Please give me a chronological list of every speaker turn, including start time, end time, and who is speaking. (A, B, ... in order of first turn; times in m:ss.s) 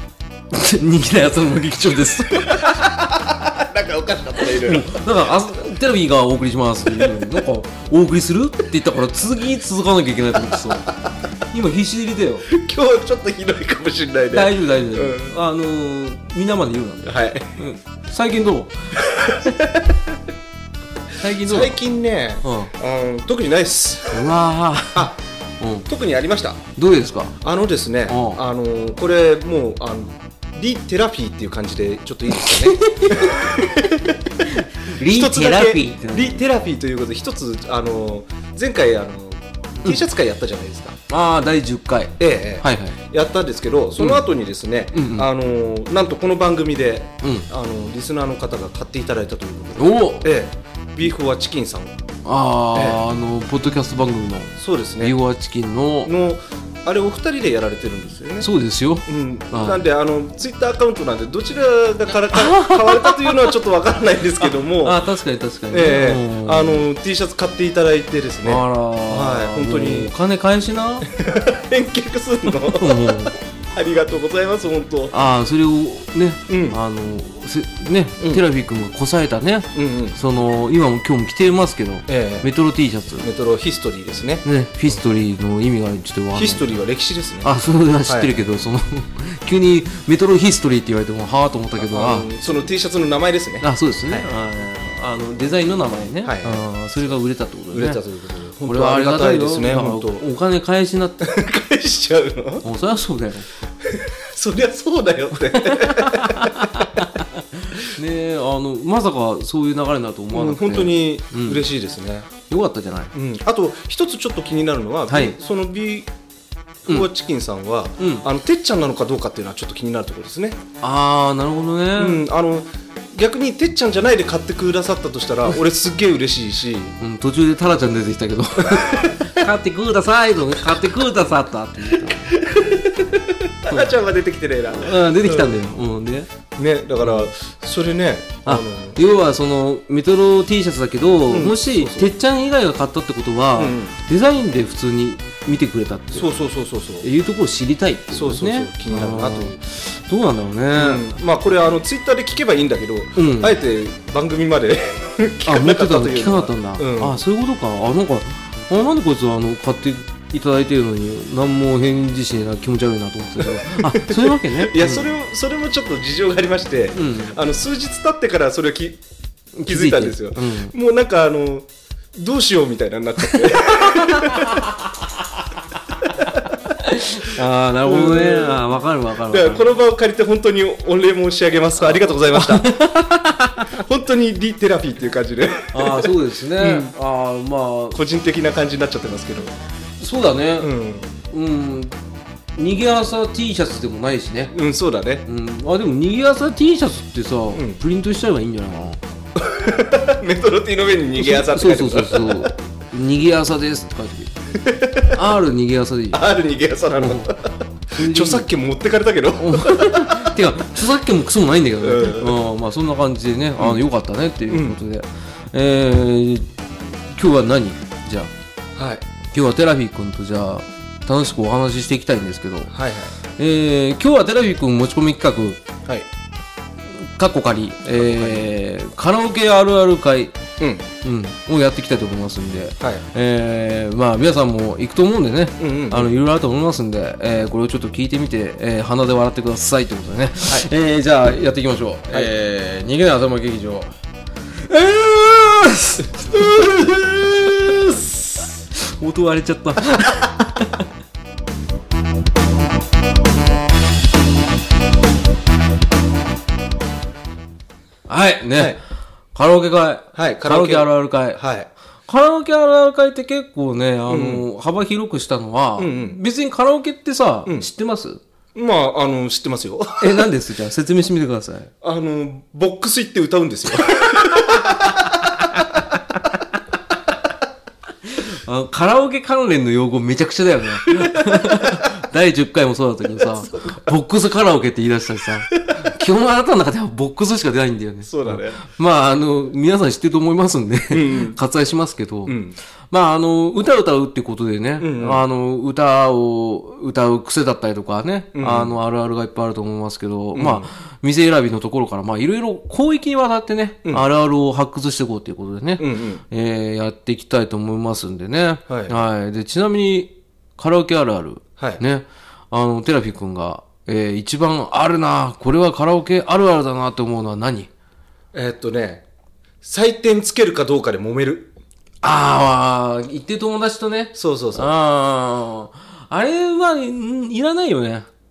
0:00.5-0:02.8 A
0:02.3-0:05.0 B
0:04.5-0:10.9 A
0:06.9-0:07.3 B
0:10.5-0:10.9 B
0:11.5-0:12.5 A
0:12.5-0:15.4 B
0:14.3-0:19.0 A
0:17.0-0:17.5 B
0:19.0-0:20.2 B
0:21.2-0:21.8 A
0:21.4-0:24.3 B
0:22.4-0:22.7 A
0:24.1-0:25.1 A
0:25.6-0:25.9 A
0:25.9-0:26.6 B
0:26.8-0:27.4 A
0:27.4-0:41.0 B
0:28.1-0:28.4 A
0:32.3-0:33.9 A
0:34.4-0:36.4 A
0:41.1-0:43.0 A
0:42.2-0:52.0 B
0:44.0-0:44.2 A
0:44.9-0:45.3 A
0:47.2-0:47.5 A
0:49.8-0:50.3 A
0:52.2-0:56.1 A
0:52.7-0:53.0 B
0:54.6-0:55.2 B
0:56.0-0:58.5 B
0:58.4-0:59.8 A
0:59.1-1:05.0 B
1:02.3-1:03.5 A
1:04.8-1:06.9 A
1:05.7-1:10.1 B
1:08.4-1:11.1 A
1:11.1-1:15.2 B
1:12.6-1:13.4 A
1:15.1-1:23.3 A
1:16.5-1:16.8 B
1:19.7-1:20.2 B
1:22.1-1:22.5 B
1:23.2-1:24.4 B
1:24.4-1:26.6 A
1:26.4-1:27.5 B
1:27.4-1:32.3 A
1:28.1-1:28.3 B
1:31.8-1:34.3 B
1:33.6-1:38.0 A
1:36.2-1:37.2 B
1:37.7-1:40.2 B
1:38.6-1:41.3 A
1:41.2-1:42.7 B
1:42.6-1:43.5 A
1:43.8-1:47.1 B
1:45.5-1:51.6 A
1:50.3-1:52.3 B
1:52.5-1:53.1 A
1:53.1-1:56.1 B
1:55.1-1:55.4 A
1:56.9-2:00.6 B
1:58.0-1:58.2 A
2:00.8-2:02.2 A
2:02.0-2:07.0 B
2:07.0-2:12.4 A
2:08.6-2:09.3 B
2:12.1-2:15.7 B
2:13.7-2:14.0 A
2:14.7-2:16.3 A
2:16.6-2:19.0 B
2:18.5-2:26.3 A
2:21.3-2:22.1 B
2:23.6-2:23.9 B
2:26.1-2:27.1 B
2:27.0-2:31.0 A
2:28.1-2:29.6 B
2:30.8-2:37.2 B
2:33.2-2:33.6 A
2:35.5-2:45.1 A
2:43.4-2:49.0 B
2:47.0-2:47.4 A
2:49.6-2:50.7 A
2:49.7-2:54.7 B
2:53.3-2:54.8 A
2:56.2-2:59.7 A
2:57.8-2:58.6 B
2:59.2-3:02.7 B
3:02.3-3:03.8 A
3:03.7-3:06.9 B
3:05.7-3:08.0 A
3:07.9-3:09.5 B
3:10.0-3:10.7 A
3:10.6-3:11.1 B
3:11.3-3:12.0 A
3:12.6-3:14.6 A
3:14.5-3:15.3 B
3:15.3-3:19.0 A
3:17.5-3:17.8 B
3:19.4-3:22.5 B
3:21.2-3:24.3 A
3:24.6-3:25.2 B
3:25.1-3:26.2 A
3:26.1-3:30.3 B
3:27.0-3:27.3 A
3:28.0-3:28.5 A
3:29.4-3:36.5 A
3:31.8-3:32.4 B
3:34.5-3:34.8 B
3:37.2-3:38.3 A
3:38.8-3:39.0 B
3:39.3-3:42.7 A
3:42.7-3:43.1 B
3:43.4-3:45.6 A
3:47.0-3:50.4 A
3:47.9-3:48.4 B
3:50.6-3:50.9 B
3:51.0-4:03.9 A
3:55.6-3:56.1 B
4:04.6-4:10.8 A
4:18.1-4:18.8 A
4:19.4-4:21.4 A
4:20.2-4:21.7 B
4:22.1-4:28.2 A
4:24.1-4:24.5 B
4:25.8-4:26.2 B
4:28.6-4:30.2 B
4:30.0-4:31.7 A
4:31.8-4:35.7 B
4:34.1-4:35.8 A
4:38.1-4:52.4 A
4:41.0-4:41.9 B
4:43.2-4:43.8 B
4:48.1-4:48.6 B
4:50.9-4:51.4 B
4:52.3-4:52.6 B
4:52.9-5:17.7 A
4:54.8-4:55.2 B
4:58.3-4:58.8 B
5:00.4-5:00.7 B
5:05.8-5:06.2 B
5:08.7-5:09.0 B
5:18.3-5:19.0 B
5:19.6-5:21.5 B
5:22.0-5:28.1 A
5:24.2-5:24.7 B